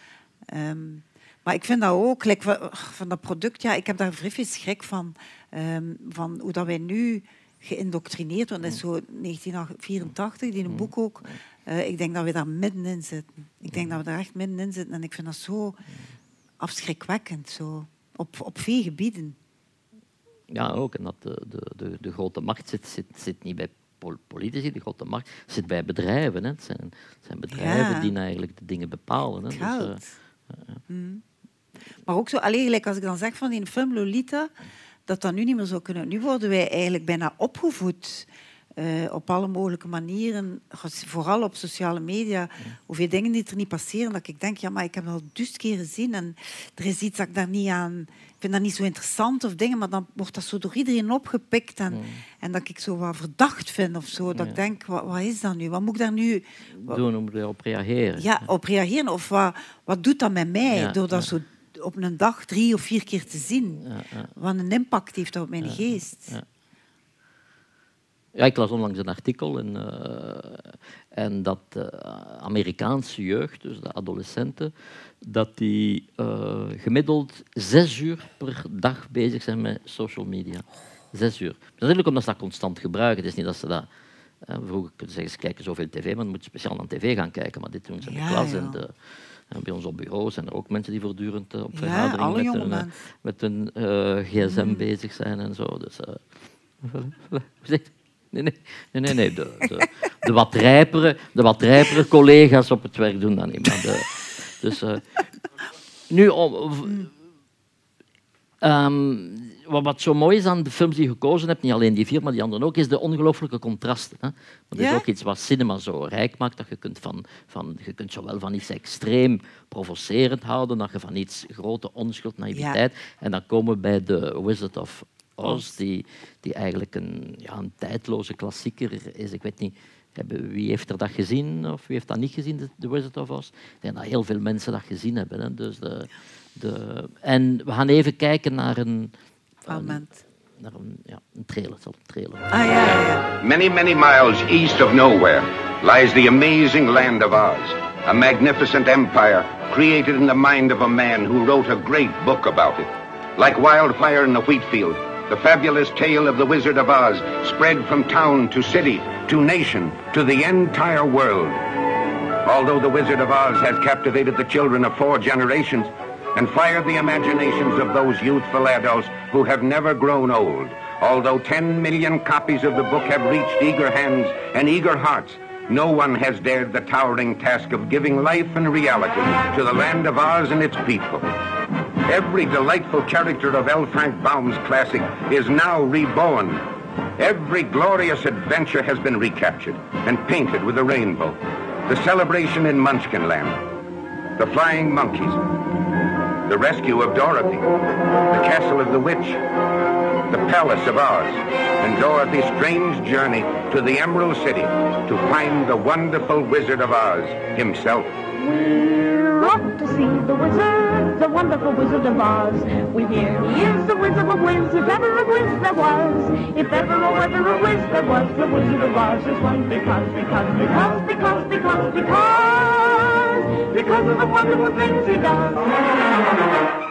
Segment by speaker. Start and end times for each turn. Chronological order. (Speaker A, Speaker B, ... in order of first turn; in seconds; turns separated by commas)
Speaker A: 0.5-15.8, Speaker A: 16.6-19.4, Speaker B: 20.5-30.0, Speaker A: 27.5-28.1, Speaker A: 29.5-30.1, Speaker A: 30.9-31.2, Speaker A: 32.0-34.5, Speaker A: 35.1-57.0, Speaker B: 51.9-52.2, Speaker B: 56.8-58.5, Speaker A: 58.2-63.8, Speaker B: 60.7-61.3, Speaker B: 63.9-64.3, Speaker A: 64.3-66.3, Speaker B: 68.3-74.7, Speaker B: 75.2-83.9, Speaker B: 84.4-88.9, Speaker A: 88.0-88.8, Speaker B: 89.5-96.2, Speaker A: 91.7-92.9, Speaker A: 94.4-94.9, Speaker B: 96.8-105.0, Speaker B: 106.1-107.1, Speaker B: 108.6-139.1, Speaker A: 114.8-115.0, Speaker A: 122.5-122.8, Speaker A: 125.4-125.7, Speaker B: 139.7-140.0, Speaker A: 139.7-140.2, Speaker B: 140.6-142.8, Speaker A: 142.5-143.2, Speaker C: 143.4-161.6, Speaker C: 162.4-181.2, Speaker C: 182.1-186.6, Speaker C: 187.2-193.6, Speaker C: 194.4-195.4, Speaker C: 196.5-197.7, Speaker C: 198.3-199.4, Speaker C: 200.3-208.2, Speaker D: 208.4-225.9